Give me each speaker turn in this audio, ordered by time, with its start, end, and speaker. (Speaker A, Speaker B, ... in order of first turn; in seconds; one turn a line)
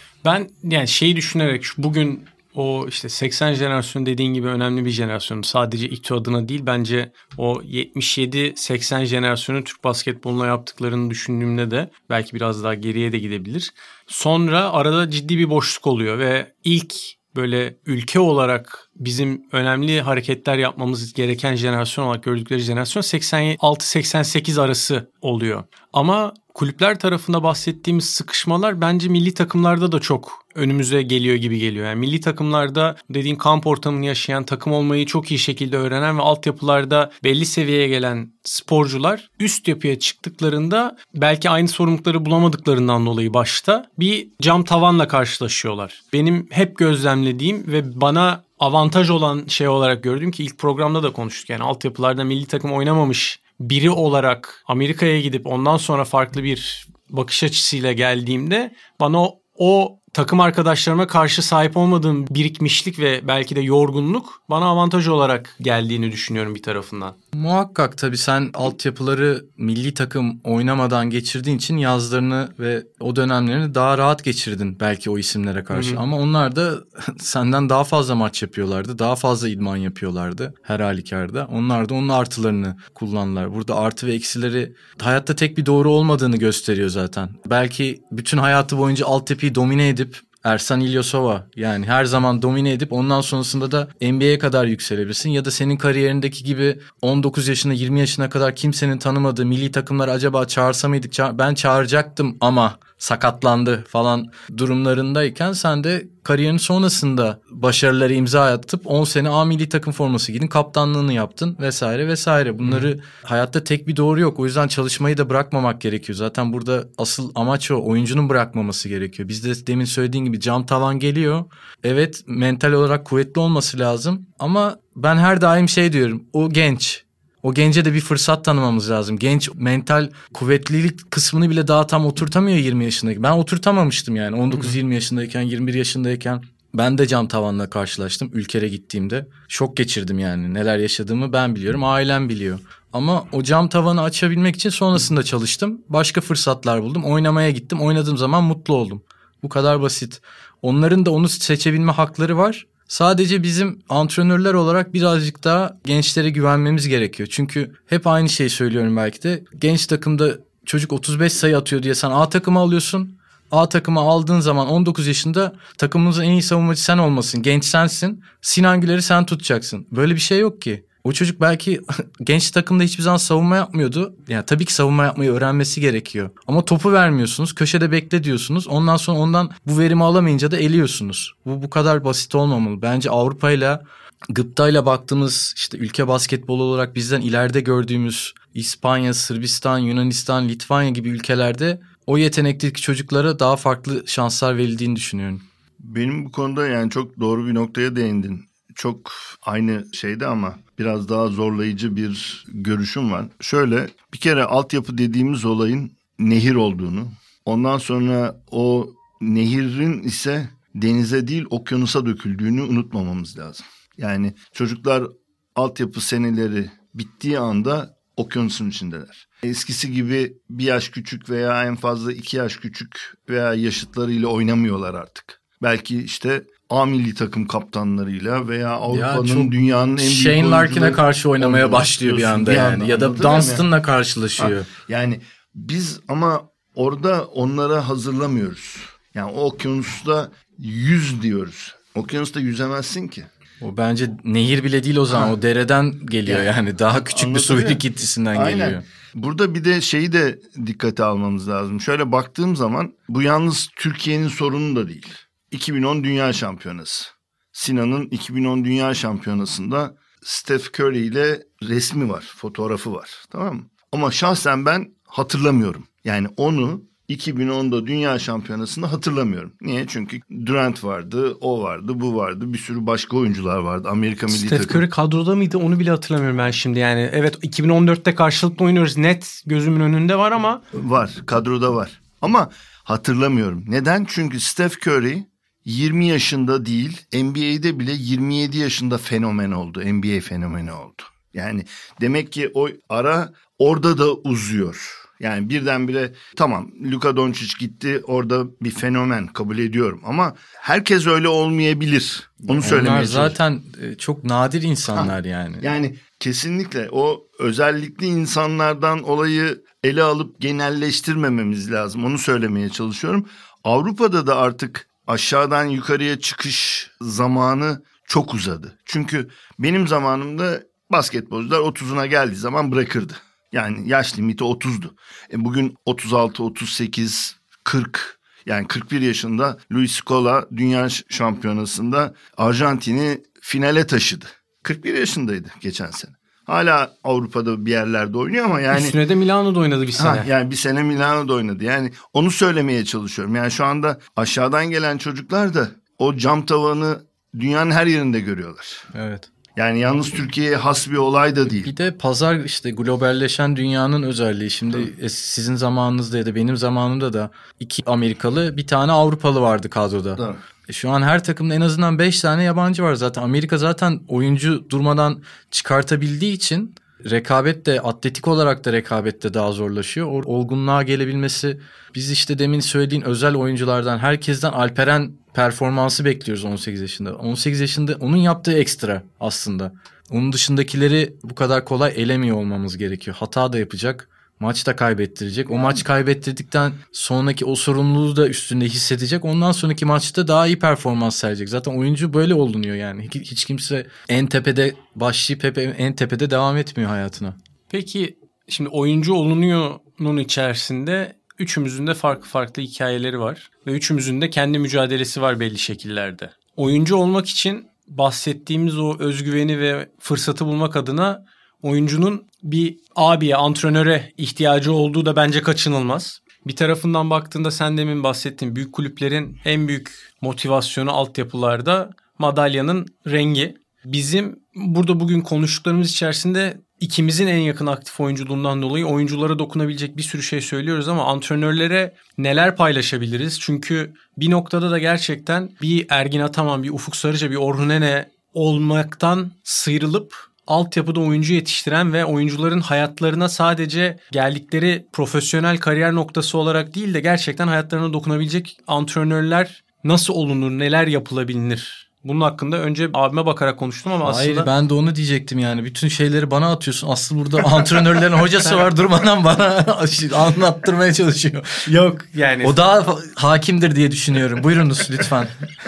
Speaker A: 0.2-67.2
Speaker B: 67.3-195.4
Speaker A: 75.7-76.0
Speaker C: 195.8-233.7
Speaker B: 228.9-234.7
Speaker C: 234.4-243.3
Speaker B: 243.6-248.8
Speaker C: 245.1-245.3
Speaker C: 246.2-246.5
Speaker C: 247.0-274.9
Speaker A: 274.3-280.6
Speaker C: 280.7-303.4
Speaker B: 302.4-305.7
Speaker C: 304.9-338.9
Speaker A: 338.7-340.3
Speaker C: 340.0-348.9
Speaker B: 348.9-349.3
Speaker C: 349.6-351.7
Speaker B: 351.6-397.4
Speaker A: 397.7-454.5
Speaker B: 454.0-461.7
Speaker A: 461.6-462.6
Speaker B: 462.4-465.4